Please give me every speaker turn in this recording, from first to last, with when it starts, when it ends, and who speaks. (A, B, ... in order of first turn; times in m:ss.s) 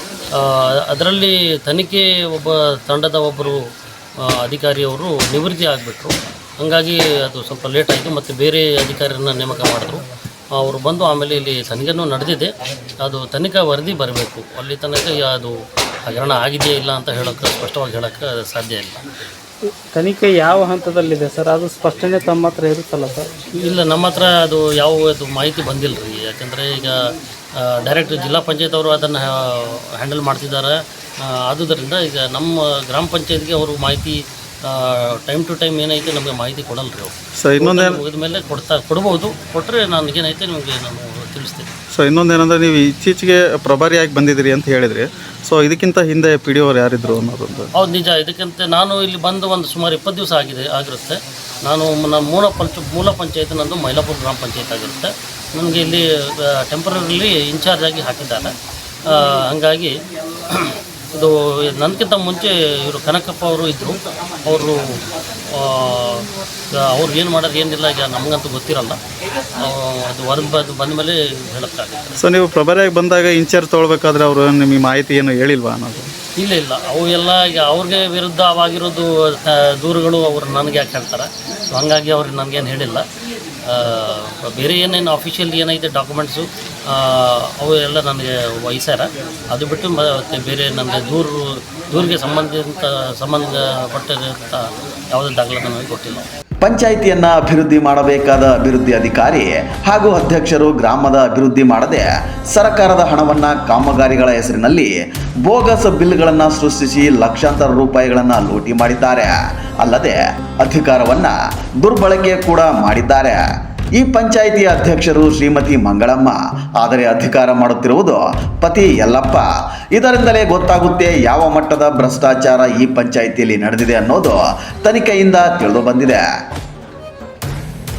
0:00.3-0:03.6 A
0:04.4-0:12.5 A
0:13.0-0:19.0 A
0:19.9-0:23.3 B
0:23.6-0:26.9 A
0:27.6-0:30.7 A
0:31.4-0:41.7 A
0:37.4-0:38.0 C
0:41.9-0:47.7 C
0:47.8-0:56.0 A
0:56.7-0:58.5 A
0:59.1-0:59.9 A
1:00.5-1:04.8 A
1:05.5-1:06.2 A
1:06.8-1:09.0 A
1:09.6-1:12.2 A
1:12.2-1:16.1 C
1:16.4-1:23.0 A
1:23.7-1:36.2 A
1:36.6-1:44.9 D
1:45.4-1:53.4 D
1:54.0-2:06.2 D